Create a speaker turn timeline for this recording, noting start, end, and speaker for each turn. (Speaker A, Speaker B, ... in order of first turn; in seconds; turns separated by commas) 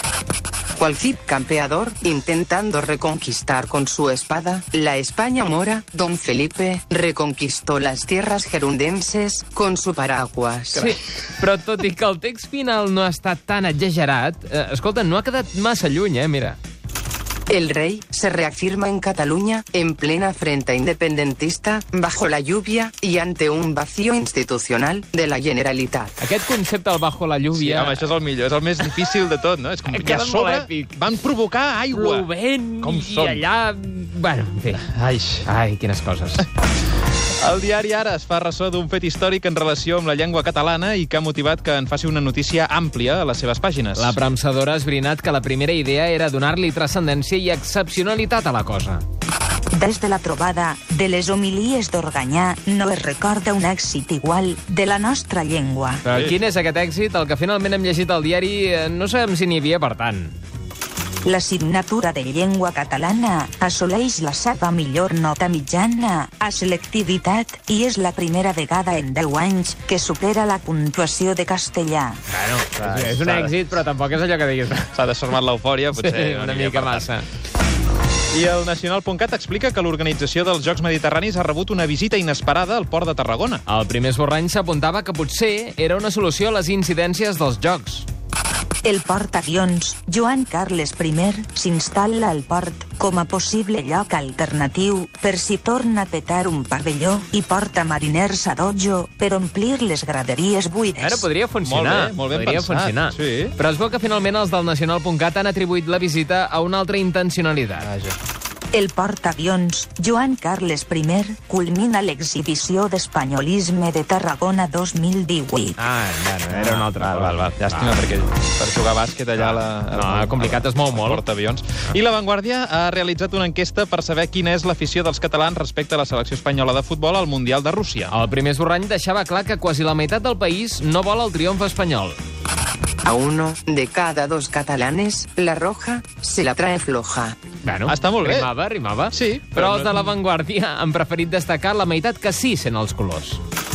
Speaker A: 0.8-11.0, Speaker B: 10.7-16.6, Speaker A: 17.5-26.2, Speaker B: 26.2-28.0, Speaker C: 27.5-32.3, Speaker B: 28.8-29.1, Speaker B: 29.9-31.1, Speaker B: 31.9-36.5, Speaker C: 32.8-33.5, Speaker C: 37.4-44.2, Speaker B: 44.0-49.0, Speaker D: 49.7-56.0, Speaker B: 56.0-60.4, Speaker C: 56.1-56.4, Speaker D: 61.2-72.2, Speaker B: 72.3-74.9, Speaker C: 72.8-73.6, Speaker C: 74.9-77.1, Speaker B: 75.9-77.3, Speaker C: 78.3-83.6, Speaker B: 83.7-88.1, Speaker D: 88.8-101.3, Speaker B: 101.0-107.9, Speaker C: 101.6-103.5, Speaker C: 107.8-108.2, Speaker D: 108.7-115.8, Speaker B: 115.8-118.0, Speaker C: 116.5-128.1, Speaker B: 119.4-121.2, Speaker B: 128.1-132.2, Speaker A: 133.1-137.4, Speaker B: 137.6-143.4, Speaker C: 137.9-138.5, Speaker C: 139.1-140.1